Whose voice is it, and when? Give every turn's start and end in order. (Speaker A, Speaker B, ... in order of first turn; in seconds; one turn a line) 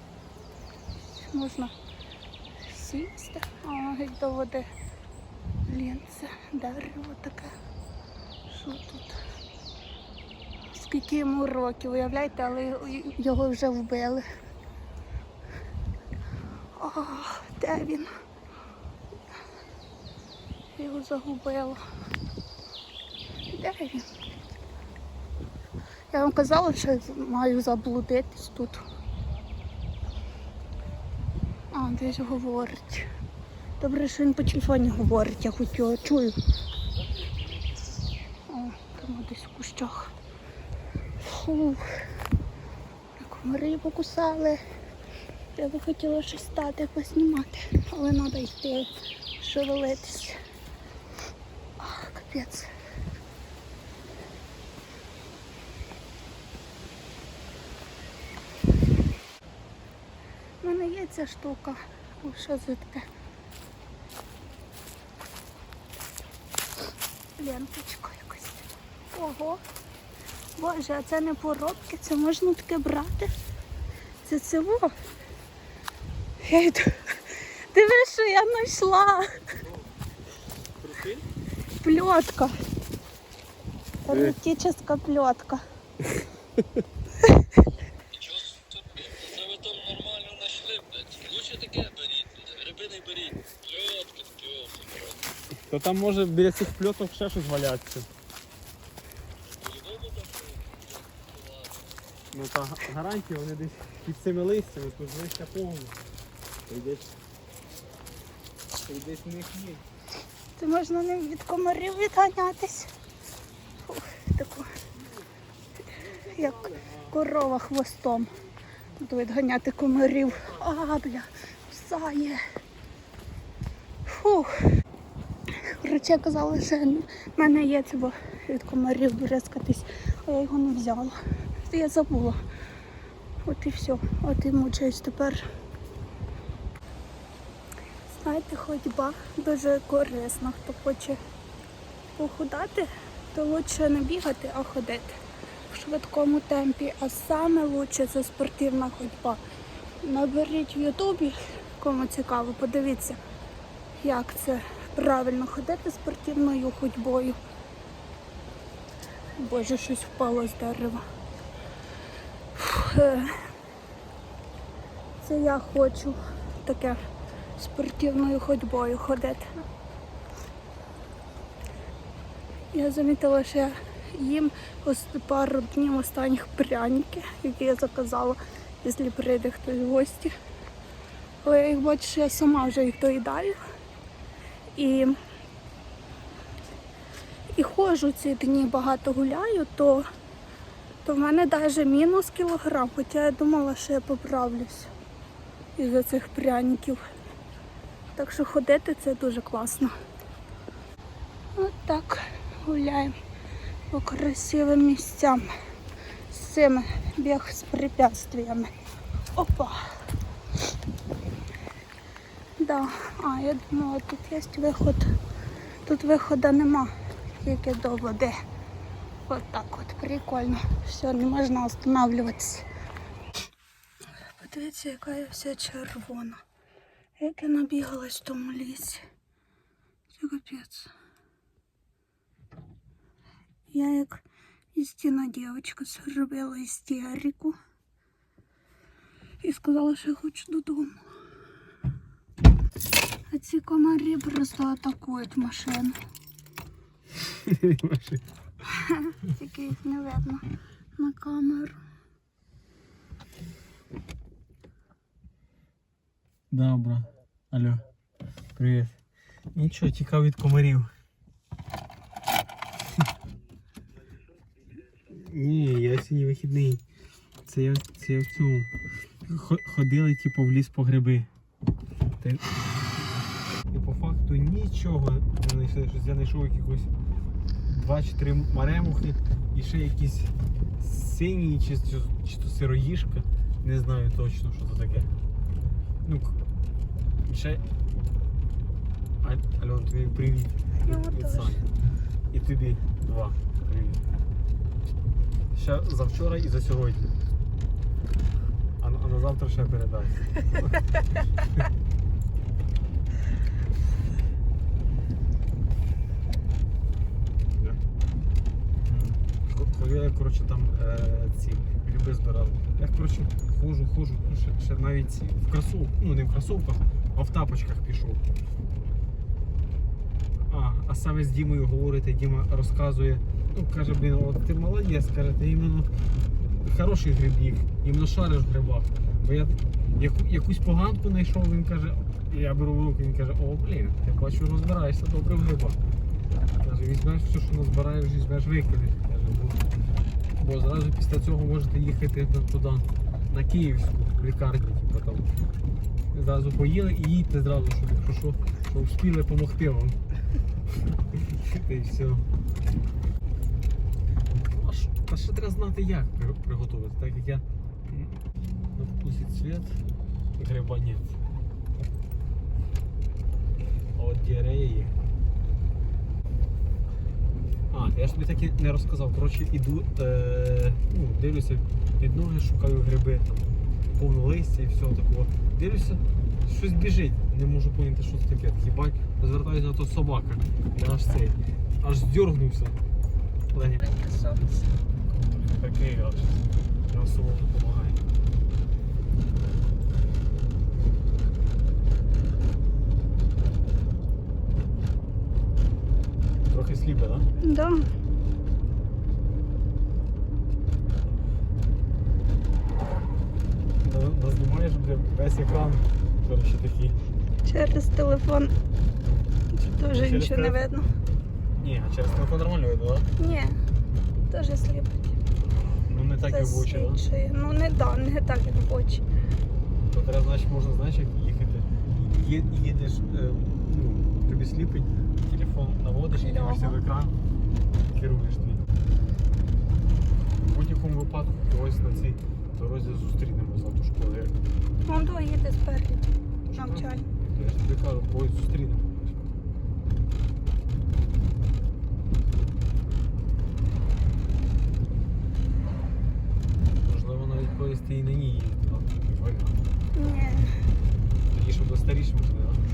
Speaker A: 1.2-1.7
Speaker A: 2.6-4.7
Speaker A: 5.7-7.5
Speaker A: 8.5-9.2
Speaker A: 10.7-14.2
Speaker A: 16.8-18.1
Speaker A: 20.8-21.8
Speaker A: 23.5-24.1
Speaker A: 26.1-28.8
Speaker A: 31.7-33.1
Speaker A: 33.8-36.4
Speaker A: 38.5-40.1
Speaker A: 41.2-41.9
Speaker A: 43.2-44.6
Speaker A: 45.6-50.4
Speaker A: 51.8-52.7
Speaker A: 60.6-63.1
Speaker A: 67.4-69.6
Speaker A: 70.6-73.3
Speaker A: 74.2-75.0
Speaker A: 76.4-79.5
Speaker B: 79.6-79.9
Speaker B: 80.8-81.2
Speaker A: 81.8-82.6
Speaker A: 84.1-85.6
Speaker B: 84.1-84.4
Speaker B: 86.6-86.8
Speaker C: 88.1-95.2
Speaker B: 95.7-98.1
Speaker C: 99.4-102.1
Speaker B: 102.3-106.0
Speaker B: 106.7-107.1
Speaker B: 108.9-109.8
Speaker A: 110.6-112.9
Speaker A: 113.8-114.7
Speaker B: 116.0-117.2
Speaker A: 116.3-118.3
Speaker A: 119.0-122.4
Speaker A: 124.1-124.5
Speaker A: 125.5-132.4
Speaker A: 133.4-135.4
Speaker A: 138.1-141.2
Speaker A: 142.2-149.4
Speaker A: 150.0-153.2
Speaker A: 154.0-157.4
Speaker A: 159.4-161.0
Speaker A: 162.6-163.3
Speaker A: 165.2-167.0
Speaker A: 167.6-169.5
Speaker A: 172.7-180.3
Speaker A: 181.4-183.6
Speaker A: 184.8-185.2
Speaker A: 187.5-190.1
Speaker A: 191.0-194.9
Speaker A: 195.8-197.0
Speaker A: 198.2-199.9
Speaker A: 201.6-203.1
Speaker A: 203.9-205.5
Speaker A: 206.3-208.7
Speaker A: 209.4-209.8
Speaker A: 212.6-215.1
Speaker A: 215.9-218.3
Speaker A: 219.3-222.7
Speaker A: 224.4-226.4
Speaker A: 227.2-229.0
Speaker A: 230.2-230.9
Speaker A: 233.7-234.2
Speaker A: 234.8-237.6
Speaker A: 239.4-241.0
Speaker A: 243.3-245.9
Speaker B: 247.2-248.2
Speaker A: 248.8-250.4
Speaker A: 251.0-251.8
Speaker B: 256.5-257.8
Speaker B: 258.6-259.0
Speaker B: 259.5-260.9
Speaker B: 265.1-266.8
Speaker B: 267.4-268.7
Speaker B: 269.2-271.3
Speaker B: 272.2-272.6
Speaker B: 273.7-276.9
Speaker B: 277.6-285.1
Speaker B: 286.0-286.4
Speaker B: 287.2-287.6
Speaker B: 289.2-291.6
Speaker A: 290.8-291.6
Speaker B: 292.3-294.0
Speaker B: 295.5-297.1
Speaker B: 298.8-300.8
Speaker B: 308.9-318.2
Speaker B: 320.4-325.9
Speaker B: 326.6-335.8
Speaker B: 336.6-339.6
Speaker B: 340.4-345.3
Speaker B: 346.1-350.0
Speaker B: 351.1-352.3
Speaker B: 354.5-358.2
Speaker B: 358.8-359.8
Speaker B: 360.4-361.2
Speaker B: 363.9-364.9
Speaker B: 367.7-382.8
Speaker B: 383.5-383.9
Speaker A: 383.8-384.4
Speaker B: 385.1-388.0
Speaker B: 396.5-397.3
Speaker A: 397.4-397.8
Speaker B: 403.8-407.0
Speaker A: 407.4-408.5
Speaker A: 409.6-410.9
Speaker B: 409.9-410.6
Speaker B: 411.6-413.1
Speaker A: 413.2-413.6
Speaker A: 414.3-415.2
Speaker B: 415.9-417.0
Speaker A: 416.3-419.0
Speaker B: 419.9-427.1
Speaker A: 426.1-426.8
Speaker B: 427.9-428.6
Speaker B: 430.4-434.4
Speaker A: 434.9-437.0
Speaker B: 436.5-439.3
Speaker B: 446.9-449.6
Speaker A: 449.9-450.5
Speaker B: 451.3-452.6